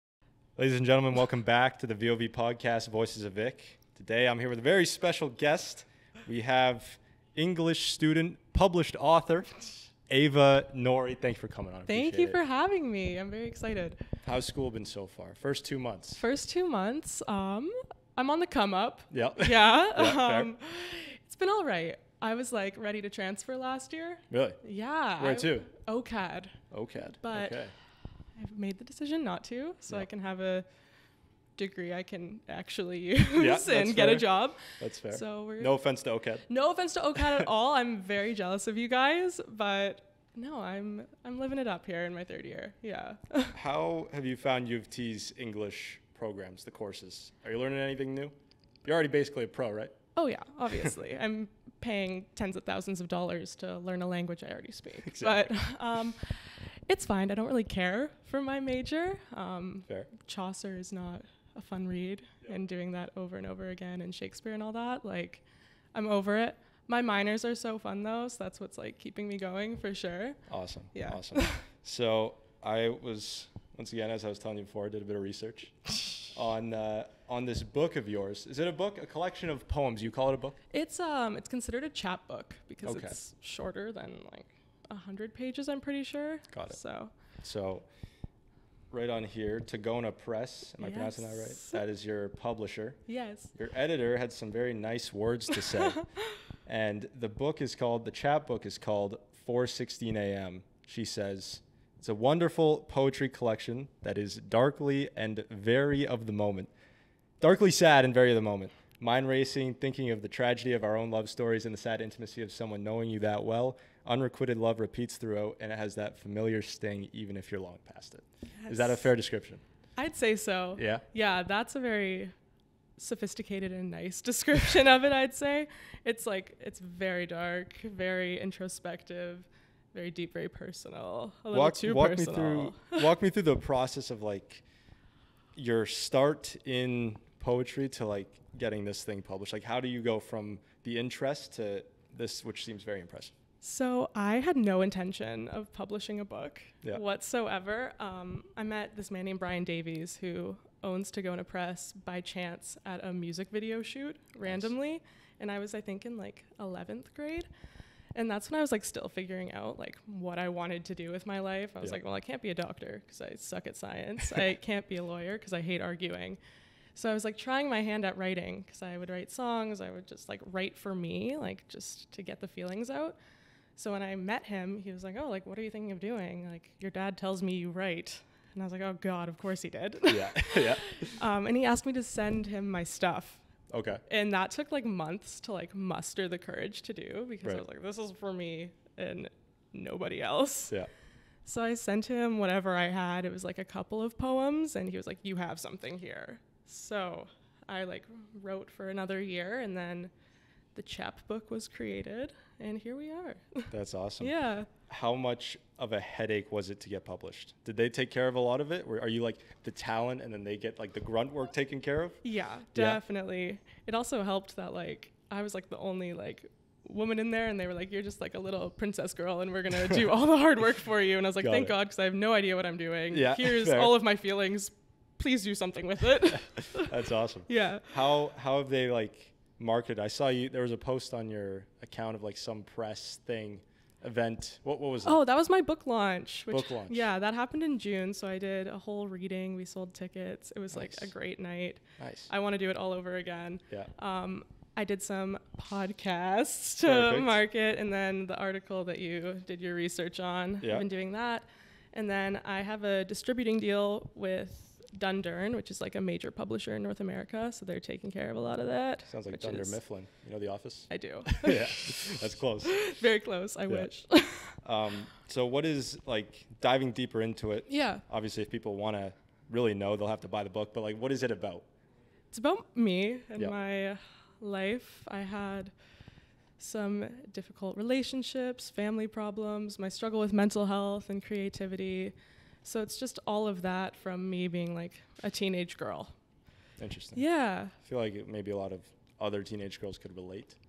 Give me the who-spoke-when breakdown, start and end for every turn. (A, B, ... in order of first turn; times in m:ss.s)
0:00.6-0:12.4 A
0:11.9-0:14.0 B
0:14.2-0:16.2 A
0:16.2-0:26.6 B
0:19.1-0:20.5 A
0:24.3-0:24.6 A
0:25.2-0:25.7 A
0:26.7-0:27.7 A
0:27.2-0:27.6 B
0:28.4-0:30.7 B
0:31.6-0:35.7 B
0:33.4-0:36.5 A
0:36.5-0:43.6 B
0:43.5-0:48.3 A
0:48.8-0:50.0 A
0:50.2-1:10.4 B
0:55.0-0:55.5 A
1:10.5-1:20.6 A
1:11.0-1:11.6 B
1:20.7-1:27.1 B
1:22.8-1:23.2 A
1:26.5-1:26.8 A
1:27.4-1:27.8 A
1:28.9-1:33.0 A
1:30.8-1:31.8 B
1:33.1-1:33.5 B
1:33.6-1:36.0 A
1:35.8-1:36.0 B
1:36.6-1:46.7 A
1:47.4-1:59.6 A
1:58.6-1:59.0 B
2:00.0-2:02.3 B
2:00.8-2:01.0 A
2:03.0-2:13.1 B
2:11.5-2:14.6 A
2:15.6-2:23.3 A
2:23.6-2:37.5 B
2:38.1-2:46.4 B
2:47.0-2:53.2 B
2:53.8-3:03.4 B
3:00.1-3:01.1 A
3:03.7-3:04.0 A
3:04.1-3:10.7 B
3:11.4-3:20.1 B
3:20.7-3:24.7 B
3:23.7-3:32.2 A
3:32.2-3:47.0 B
3:32.8-3:33.0 A
3:41.4-3:41.8 A
3:43.1-3:44.0 A
3:46.7-3:55.2 A
3:47.5-3:47.9 B
3:55.0-4:19.8 B
3:56.5-3:57.1 A
4:00.7-4:01.1 A
4:02.0-4:02.3 A
4:06.8-4:07.4 A
4:10.6-4:10.9 A
4:19.1-4:22.9 A
4:20.9-4:24.6 B
4:24.6-4:31.6 A
4:27.7-4:28.0 B
4:32.3-4:35.7 B
4:36.6-4:46.1 B
4:46.8-4:47.2 A
4:47.2-4:47.7 B
4:47.8-4:50.6 A